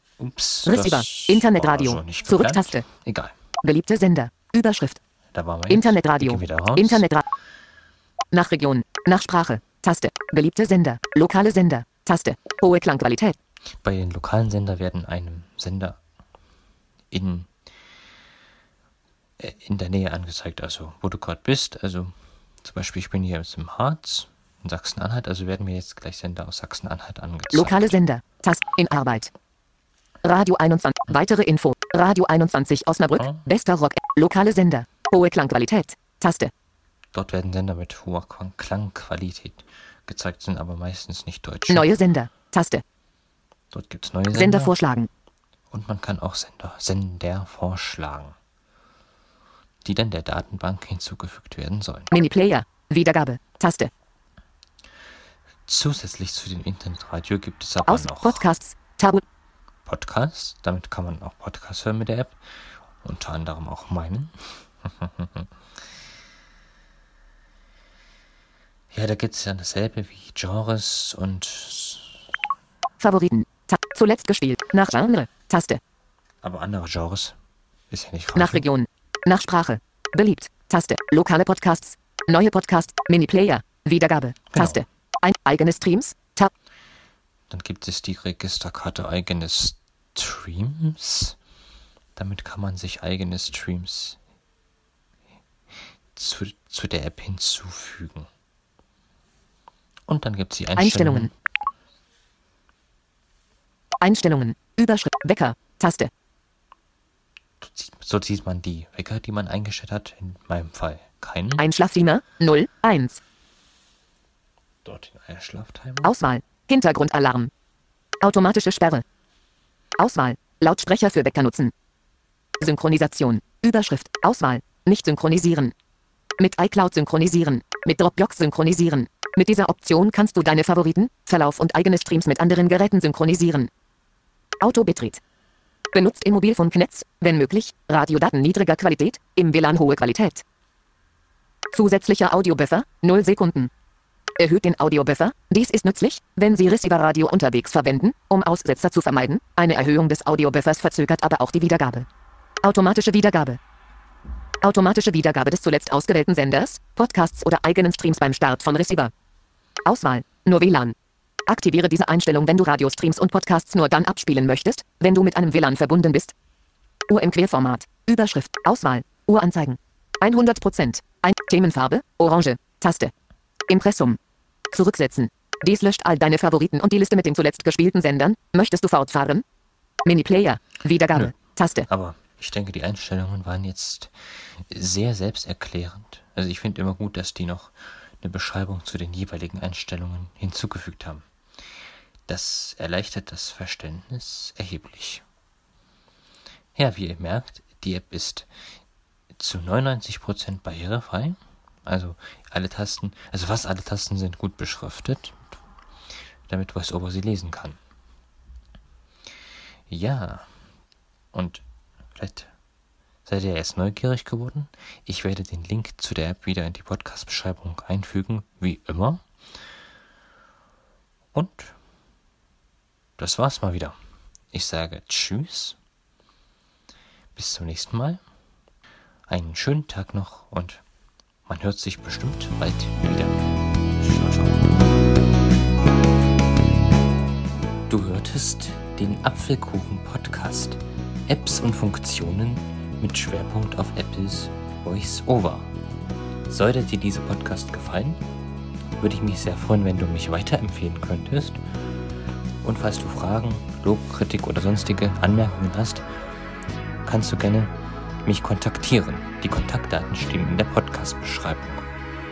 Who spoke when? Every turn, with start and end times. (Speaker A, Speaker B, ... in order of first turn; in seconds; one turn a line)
Speaker A: 0.2-3.3
Speaker B: 0.7-2.9
Speaker B: 3.6-5.0
Speaker A: 5.3-7.0
Speaker B: 5.7-7.3
Speaker B: 8.3-13.4
Speaker A: 13.8-16.0
Speaker A: 17.1-17.5
Speaker A: 19.4-28.0
Speaker B: 27.5-29.3
Speaker B: 30.2-36.5
Speaker A: 37.1-42.0
Speaker B: 41.7-42.8
Speaker A: 43.7-44.8
Speaker B: 44.3-45.1
Speaker A: 45.7-48.4
Speaker A: 49.9-52.1
Speaker B: 52.1-53.9
Speaker A: 55.7-58.5
Speaker B: 57.8-59.2
Speaker A: 59.9-65.5
Speaker A: 68.9-72.3
Speaker B: 73.0-75.8
Speaker A: 76.4-77.4
Speaker A: 77.9-78.7
Speaker B: 78.4-86.5
Speaker A: 84.5-84.8
Speaker A: 87.5-91.4
Speaker A: 92.2-94.2
Speaker A: 96.1-98.3
Speaker A: 100.1-101.3
Speaker B: 100.8-101.3
Speaker B: 104.0-106.1
Speaker A: 107.6-111.7
Speaker B: 111.6-113.2
Speaker A: 114.8-116.1
Speaker B: 116.0-117.5
Speaker B: 118.2-119.0
Speaker B: 120.0-121.7
Speaker B: 122.6-125.7
Speaker B: 126.4-133.7
Speaker B: 134.6-135.2
Speaker B: 135.9-140.4
Speaker B: 141.7-143.7
Speaker B: 144.4-152.1
Speaker B: 152.6-153.6
Speaker B: 154.6-159.1
Speaker B: 159.8-160.9
Speaker B: 161.5-166.3
Speaker B: 167.1-173.1
Speaker B: 173.7-174.2
Speaker B: 174.7-179.4
Speaker B: 180.1-181.9
Speaker A: 181.9-191.3
Speaker A: 192.3-195.2
Speaker A: 196.8-198.5
Speaker A: 199.3-205.4
Speaker A: 206.5-207.8
Speaker A: 209.9-210.5
Speaker A: 211.3-212.5
Speaker A: 213.3-219.2
Speaker A: 221.3-221.8
Speaker A: 223.2-224.0
Speaker A: 224.5-225.8
Speaker A: 227.3-228.2
Speaker A: 229.3-230.8
Speaker A: 231.5-234.6
Speaker A: 237.9-245.7
Speaker A: 246.5-248.2
Speaker A: 249.0-251.6
Speaker A: 252.6-256.1
Speaker A: 257.1-257.7
Speaker A: 258.2-261.9